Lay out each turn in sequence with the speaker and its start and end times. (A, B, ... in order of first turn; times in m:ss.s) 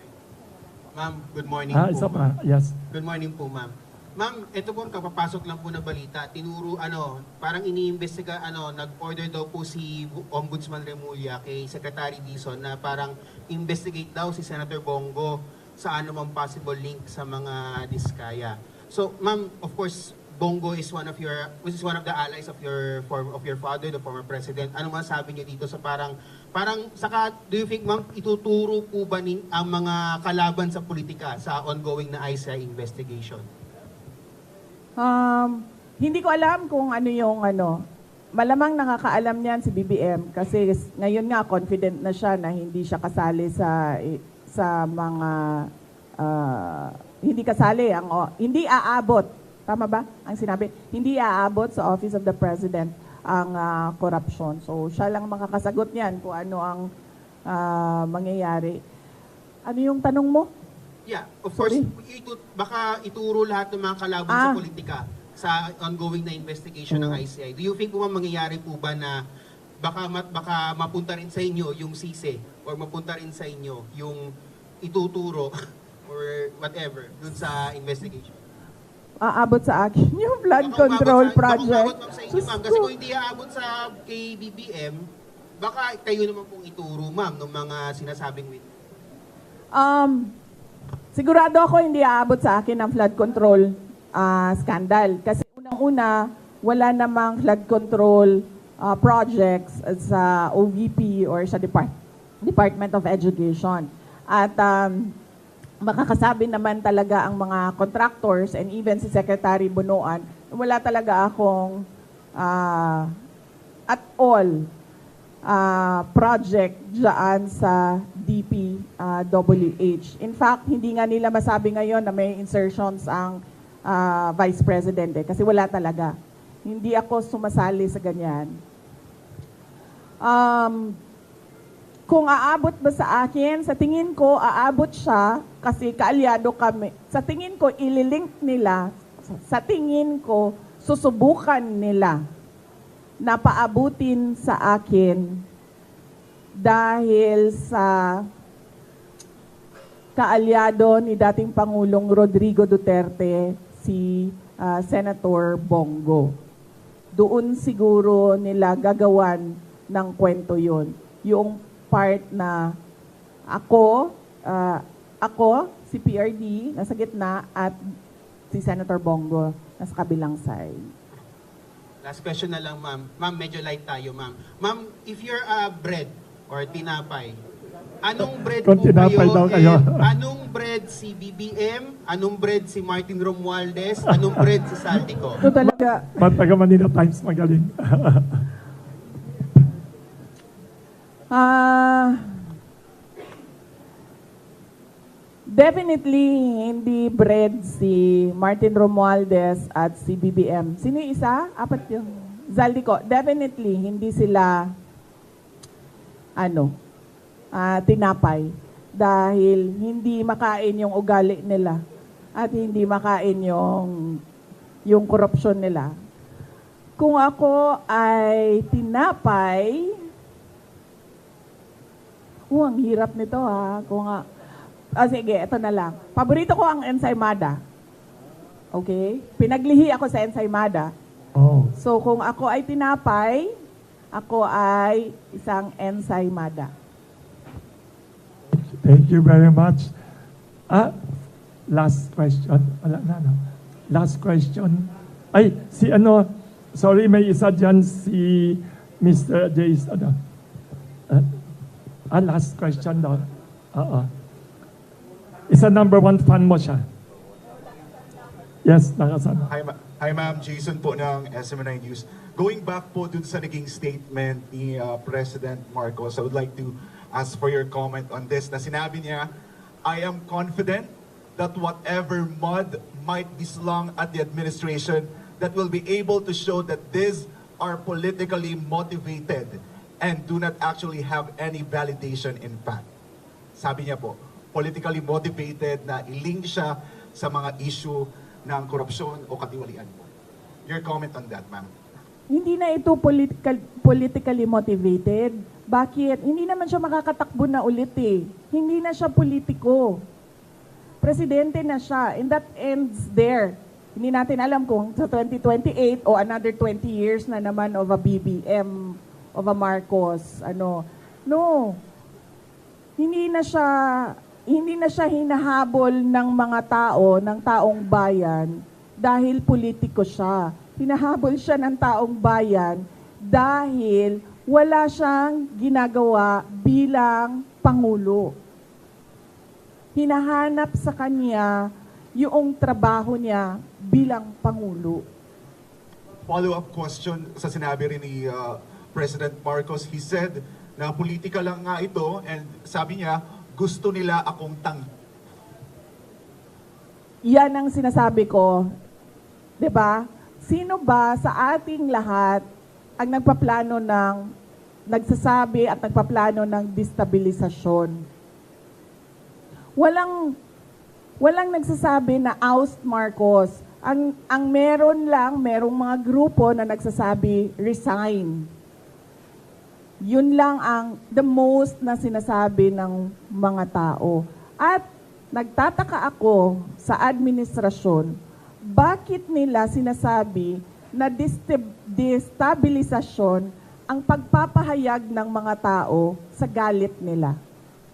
0:00.9-0:02.3 A
0:01.7-0:02.8 B
0:02.9-0:33.4 A
0:35.0-0:37.8 C
0:38.4-0:56.9 C
0:57.5-0:58.8 C
0:59.6-1:00.5 C
1:01.1-1:09.2 A
1:01.6-1:01.9 C
1:04.3-1:04.6 C
1:06.9-1:07.2 C
1:09.8-1:14.2 A
1:14.8-1:15.5 A
1:16.1-1:18.4 A
1:19.2-1:22.9 C
1:20.6-1:25.0 A
1:25.6-1:28.7 A
1:29.7-1:30.3 C
1:31.1-1:45.1 C
1:45.8-1:51.8 C
1:52.4-1:53.1 C
1:53.9-1:54.7 C
1:55.5-2:08.5 C
2:10.2-2:11.0 C
2:12.1-2:22.2 C
2:23.2-2:25.4 C
2:26.6-2:28.2 C
2:30.2-2:36.3 C
2:37.1-2:42.6 C
2:43.5-2:47.8 C
2:48.5-2:50.9 C
2:52.0-2:57.4 A
2:58.0-3:05.4 A
2:58.2-3:00.1 B
3:05.4-3:06.3 C
3:05.4-3:08.4 B
3:11.3-3:12.2 C
3:15.5-3:24.7 C
3:26.4-3:26.7 C
3:27.5-3:31.8 C
3:32.4-3:34.0 C
3:34.9-3:35.9 C
3:37.0-3:39.9 C
3:42.5-3:44.2 C
3:45.0-3:47.6 C
3:48.7-3:50.9 C
3:51.3-3:51.7 B
3:51.8-3:53.5 C
3:54.1-3:56.7 C
3:58.5-3:59.9 B
4:00.7-4:00.9 B
4:01.7-4:10.2 B
4:12.1-4:14.1 B
4:15.5-4:16.8 B
4:18.6-4:19.5 B
4:19.5-4:29.3 D
4:29.8-4:42.8 D
4:43.6-4:50.1 D
4:50.6-4:51.7 D
4:52.3-5:00.0 C
5:01.0-5:11.8 C
5:13.0-5:28.3 C
5:29.9-5:35.0 C
5:36.3-5:44.8 D
5:47.2-5:48.7 C
5:49.6-5:52.4 C
5:53.0-5:54.2 C
5:54.9-5:58.0 C
5:59.8-6:00.3 C
6:01.2-6:08.4 C
6:10.0-6:14.8 C
6:15.3-6:18.1 C
6:18.7-6:27.4 C